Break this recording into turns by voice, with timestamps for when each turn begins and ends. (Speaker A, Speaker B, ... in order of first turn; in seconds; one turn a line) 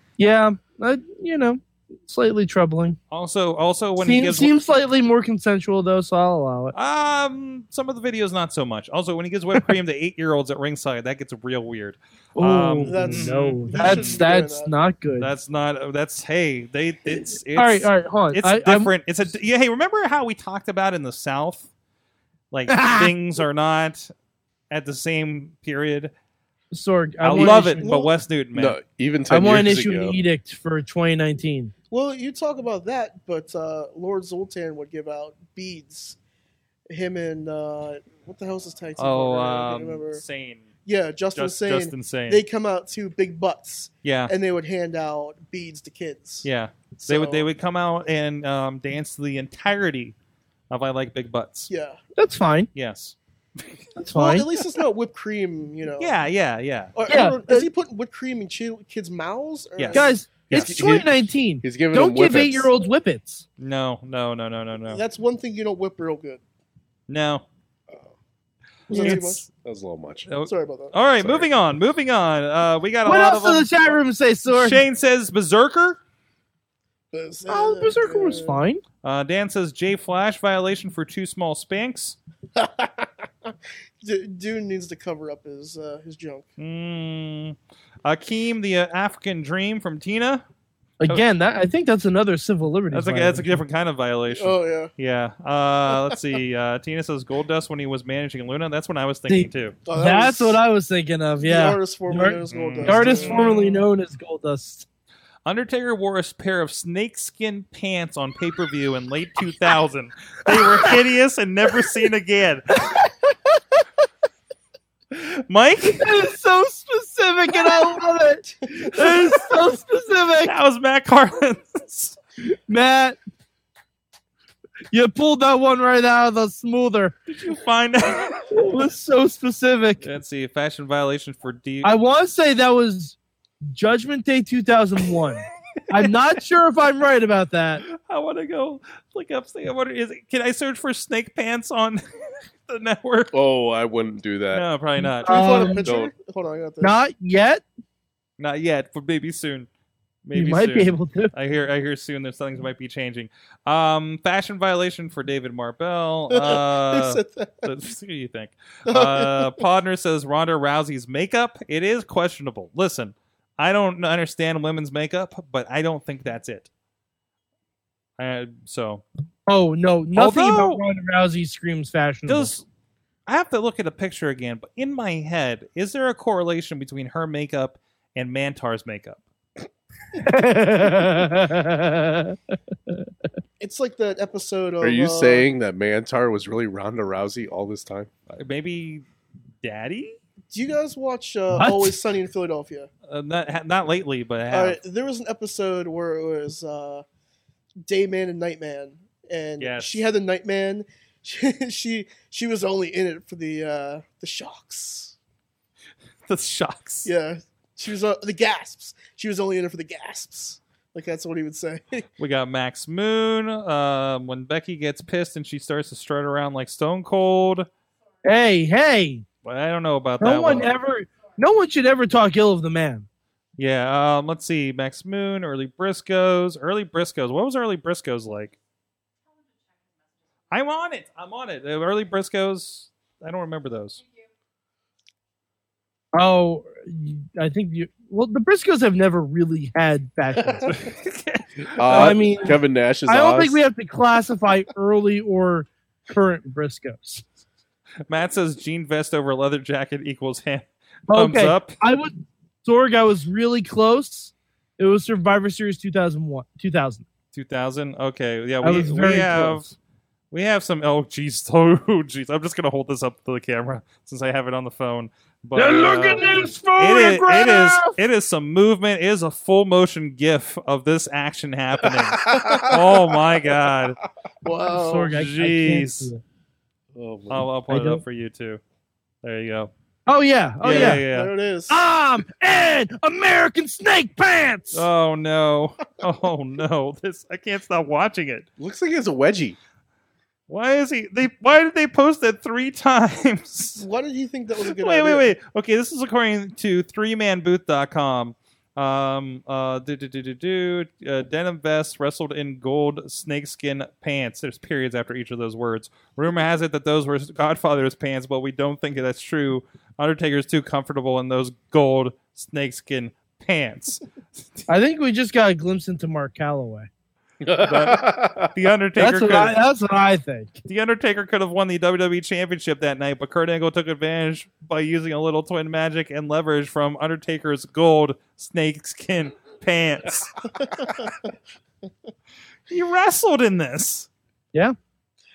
Speaker A: 0.2-3.0
Speaker B: 3.1-4.5
Speaker A: 4.0-6.8
Speaker B: 6.7-14.2
Speaker A: 12.4-15.3
Speaker C: 12.9-14.7
Speaker B: 15.2-21.7
Speaker A: 17.2-18.9
Speaker B: 22.5-24.1
Speaker A: 22.7-23.1
Speaker B: 24.7-26.1
Speaker A: 26.7-28.0
Speaker B: 27.2-28.8
Speaker C: 27.4-28.1
Speaker D: 28.5-30.2
Speaker A: 29.3-31.7
Speaker C: 31.9-36.2
Speaker C: 36.9-40.2
Speaker B: 39.0-40.7
Speaker C: 40.9-47.5
Speaker B: 41.4-42.4
Speaker B: 44.0-44.3
Speaker B: 46.4-50.1
Speaker B: 50.7-51.7
Speaker C: 51.7-52.0
Speaker A: 52.2-52.7
Speaker B: 52.8-53.8
Speaker A: 54.0-54.5
Speaker C: 54.1-56.1
Speaker B: 56.0-56.9
Speaker C: 57.0-60.2
Speaker A: 57.1-57.7
Speaker B: 59.8-60.8
Speaker A: 59.9-63.5
Speaker D: 60.5-62.7
Speaker B: 63.6-65.0
Speaker C: 64.9-66.4
Speaker B: 67.1-67.5
Speaker C: 68.9-69.4
Speaker B: 68.9-69.5
Speaker D: 69.6-70.3
Speaker B: 70.3-73.9
Speaker C: 70.4-71.4
Speaker A: 73.0-74.8
Speaker B: 74.5-76.0
Speaker C: 77.1-78.6
Speaker A: 77.5-78.8
Speaker B: 79.0-82.2
Speaker C: 82.6-86.5
Speaker B: 86.6-90.4
Speaker A: 91.0-93.6
Speaker B: 92.9-99.8
Speaker C: 94.3-94.9
Speaker A: 99.3-104.9
Speaker C: 99.9-100.6
Speaker C: 101.4-103.7
Speaker B: 102.5-103.8
Speaker B: 105.5-112.9
Speaker A: 112.8-113.6
Speaker B: 115.1-116.1
Speaker A: 115.8-120.5
Speaker B: 118.7-119.5
Speaker B: 120.5-122.2
Speaker A: 122.5-123.2
Speaker A: 124.9-127.2
Speaker B: 127.3-128.6
Speaker A: 128.5-130.1
Speaker B: 130.0-131.9
Speaker A: 131.8-133.2
Speaker A: 133.7-137.8
Speaker B: 137.9-142.0
Speaker B: 142.6-143.3
Speaker D: 143.3-144.7
Speaker B: 144.5-145.7
Speaker A: 145.0-145.9
Speaker C: 145.2-147.0
Speaker D: 145.8-146.1
Speaker A: 146.8-147.6
Speaker B: 148.4-149.7
Speaker B: 150.2-166.7
Speaker A: 150.3-151.3
Speaker C: 156.3-157.7
Speaker C: 158.9-159.6
Speaker B: 168.2-169.0
Speaker A: 169.5-172.5
Speaker B: 170.2-170.8
Speaker B: 172.3-172.7
Speaker B: 173.3-179.2
Speaker A: 180.1-182.4
Speaker C: 183.6-185.5
Speaker D: 184.8-188.1
Speaker B: 188.3-189.0
Speaker B: 189.6-190.2
Speaker C: 190.5-192.9
Speaker A: 191.5-192.0
Speaker B: 193.1-194.8
Speaker C: 194.5-197.1
Speaker C: 197.8-205.2
Speaker B: 199.6-200.0
Speaker B: 206.3-207.1
Speaker C: 207.1-212.1
Speaker B: 212.2-217.7
Speaker A: 218.2-219.2
Speaker B: 219.4-220.7
Speaker A: 220.2-223.1
Speaker B: 223.6-228.6
Speaker B: 230.5-234.0
Speaker A: 236.1-240.8
Speaker B: 240.7-242.2
Speaker D: 241.7-243.6
Speaker A: 241.8-247.2
Speaker B: 248.1-251.8
Speaker A: 251.1-257.1
Speaker B: 257.3-259.7
Speaker A: 258.6-259.7
Speaker B: 260.3-274.0
Speaker A: 265.6-268.0
Speaker D: 272.0-272.9
Speaker C: 274.4-275.1
Speaker A: 274.7-276.2
Speaker B: 275.1-276.1
Speaker D: 276.9-277.5
Speaker B: 277.3-278.6
Speaker A: 277.7-278.0
Speaker B: 279.2-279.7
Speaker A: 280.1-281.0
Speaker B: 280.6-281.3
Speaker C: 280.6-281.9
Speaker A: 281.7-284.9
Speaker B: 284.7-288.5
Speaker D: 288.6-289.6
Speaker B: 290.5-293.9
Speaker C: 293.8-295.3
Speaker B: 294.7-314.0
Speaker A: 314.7-316.9
Speaker D: 317.4-318.5
Speaker B: 317.6-319.6
Speaker A: 319.0-320.6
Speaker B: 320.7-330.5
Speaker B: 332.7-334.1